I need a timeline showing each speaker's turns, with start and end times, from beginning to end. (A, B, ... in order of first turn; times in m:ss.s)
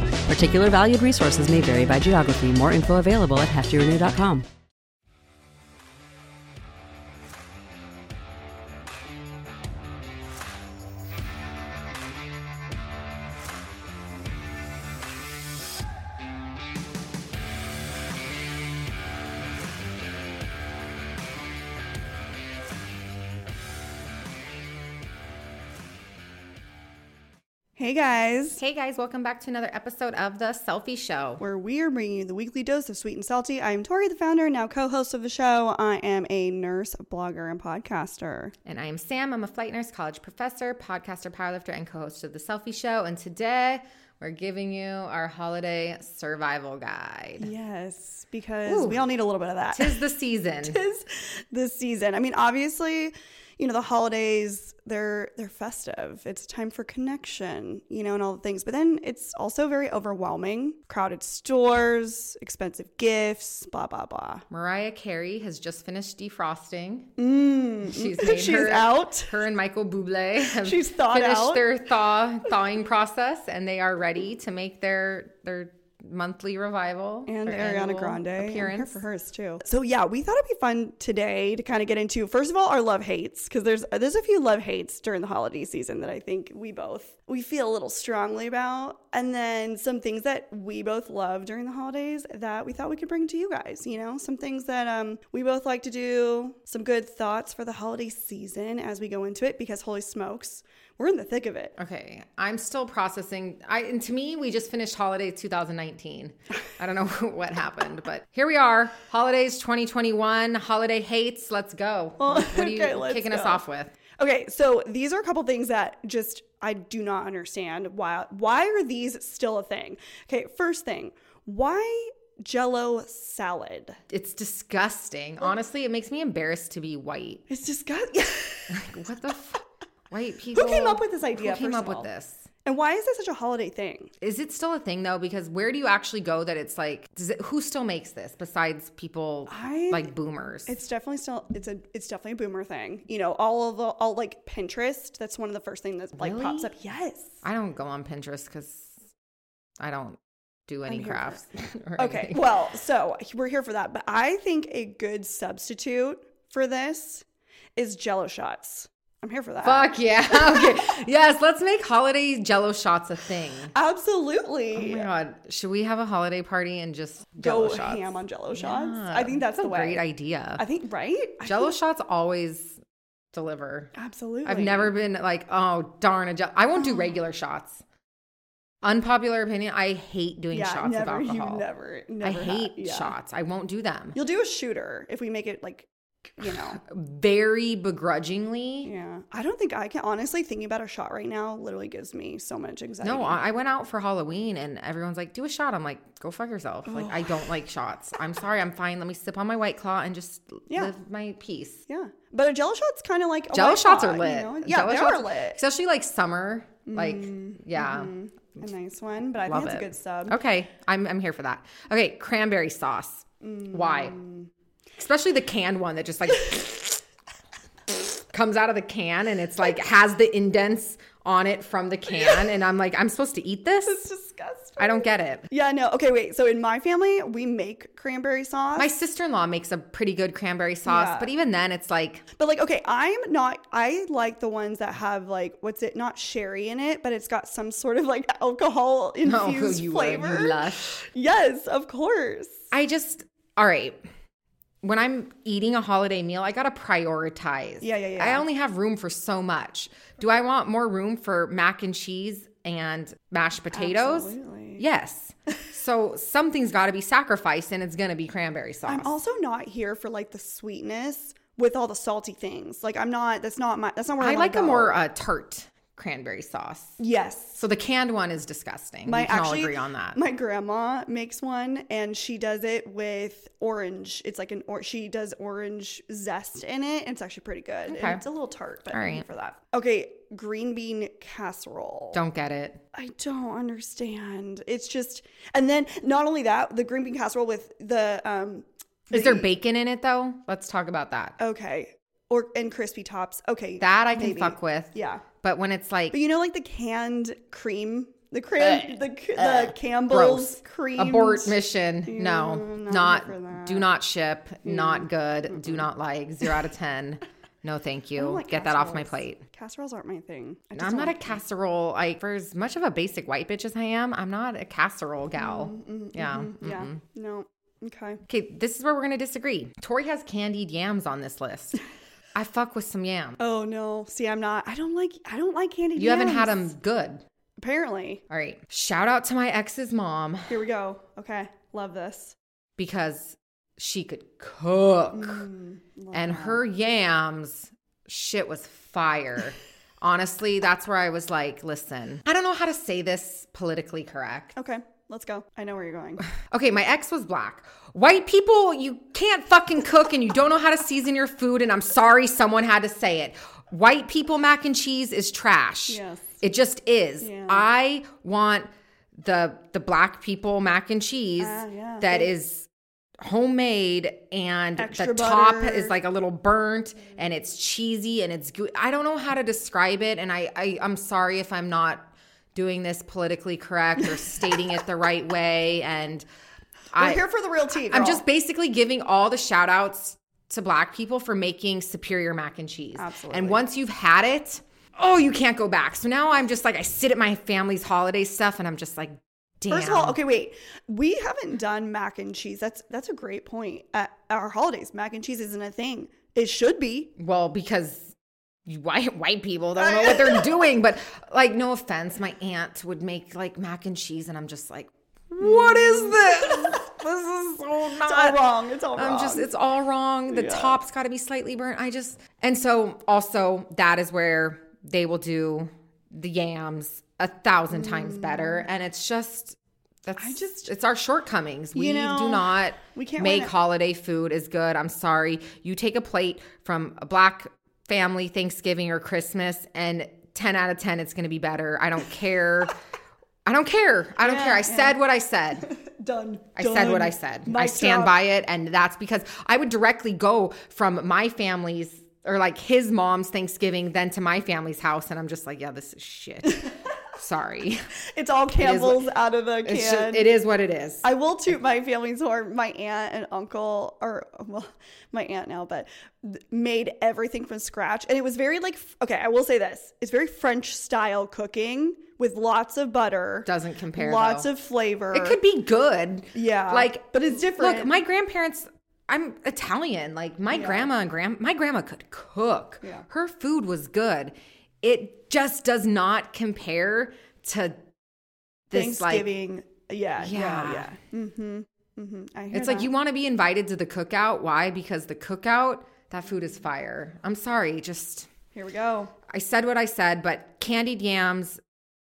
0:00.3-0:04.4 A
0:27.8-0:28.6 B
0:28.6-0:31.4 C
0:31.4-0:38.6 B
0:38.7-0:47.5 C
0:47.4-0:50.0 B
0:48.7-0:49.0 C
0:49.7-0:50.8 C
0:50.6-1:04.4 B
1:04.5-1:07.1 C
1:07.2-1:09.3 B
1:07.8-1:19.0 C
1:10.4-1:11.7 B
1:17.3-1:41.8 B
1:41.8-1:54.0 C
1:52.2-1:53.6 B
1:54.2-2:04.0 B
2:04.1-2:07.4 C
2:07.5-2:08.8 B
2:08.7-2:12.5 C
2:10.5-2:12.1 B
2:12.6-2:14.1 B
2:14.2-2:20.7 C
2:19.5-2:20.1 B
2:20.7-2:27.4 B
2:26.2-2:26.7 C
2:27.4-2:29.0 C
2:29.8-2:32.5 C
2:30.9-2:31.4 B
2:32.0-2:41.0 B
2:39.6-2:43.7 C
2:43.7-2:45.1 B
2:44.7-2:50.6 C
2:47.4-2:50.0 B
2:50.6-2:51.8 B
2:51.4-2:52.8 C
2:53.3-2:53.9 C
2:53.9-2:54.9 B
2:54.4-2:57.8 C
2:56.8-2:57.2 B
2:58.8-3:01.6 C
3:00.5-3:03.2 B
3:02.2-3:04.2 C
3:04.2-3:06.8 B
3:06.4-3:08.9 C
3:08.8-3:13.4 B
3:13.0-3:21.8 C
3:16.9-3:17.4 B
3:20.7-3:20.9 B
3:21.9-3:25.6 B
3:23.5-3:28.1 C
3:26.9-3:30.4 B
3:29.5-3:34.2 C
3:33.4-3:34.5 B
3:35.0-3:37.0 C
3:37.9-3:44.0 C
3:43.8-3:48.9 B
3:44.8-3:45.5 C
3:48.8-3:52.2 C
3:50.9-3:51.3 B
3:52.4-4:02.6 B
3:59.2-4:01.0 C
4:02.7-4:04.0 C
4:04.8-4:19.2 C
4:07.8-4:08.4 B
4:13.7-4:14.8 B
4:18.9-4:25.0 B
4:24.2-4:27.0 C
4:27.0-4:27.6 B
4:27.6-4:30.2 C
4:29.1-4:42.2 B
4:37.9-4:38.2 C
4:38.9-4:39.3 C
4:42.1-4:42.8 C
4:42.9-4:49.5 B
4:49.1-4:51.4 C
4:51.4-4:55.2 B
4:53.8-4:56.2 C
4:56.1-5:03.9 B
4:58.6-5:09.4 C
5:04.6-5:05.9 B
5:08.2-5:11.4 B
5:10.8-5:17.0 C
5:15.4-5:18.2 B
5:18.3-5:21.8 C
5:22.4-5:23.4 C
5:23.4-5:26.7 B
5:26.0-5:27.2 C
5:27.6-5:28.2 B
5:28.3-5:30.6 C
5:30.5-5:32.4 B
5:32.8-5:35.5 C
5:35.1-5:36.6 B
5:36.1-5:44.6 C
5:44.6-5:46.3 B
5:46.4-6:02.7 C
5:55.9-5:56.4 B
5:57.2-5:57.7 B
6:01.4-6:02.3 B
6:03.2-6:16.3 C
6:04.8-6:06.0 B
6:16.9-6:17.2 C
6:17.0-6:18.2 B
6:17.8-6:30.2 C
6:23.0-6:23.6 B
6:29.7-6:37.1 B
6:37.2-6:38.2 C
6:38.7-7:12.8 C
6:39.8-6:40.6 B
6:45.4-6:46.8 B
6:47.9-6:49.5 B
6:50.3-6:50.8 B
6:57.7-6:58.6 B
7:00.2-7:00.7 B
7:01.7-7:03.5 B
7:13.4-7:15.7 C
7:14.2-7:15.0 B
7:15.6-7:18.2 B
7:16.6-7:27.8 C
7:26.5-7:26.7 B
7:28.1-7:30.3 B
7:28.6-7:29.1 C
7:29.6-7:31.0 C
7:31.0-7:45.4 B
7:43.5-7:44.5 C
7:45.1-7:57.8 C
7:46.3-7:47.9 B
7:50.5-7:50.9 B
7:58.7-7:59.3 C
7:58.7-8:02.9 B
8:00.2-8:00.9 C
8:02.5-8:08.3 C
8:08.5-8:09.1 B
8:09.3-8:11.6 C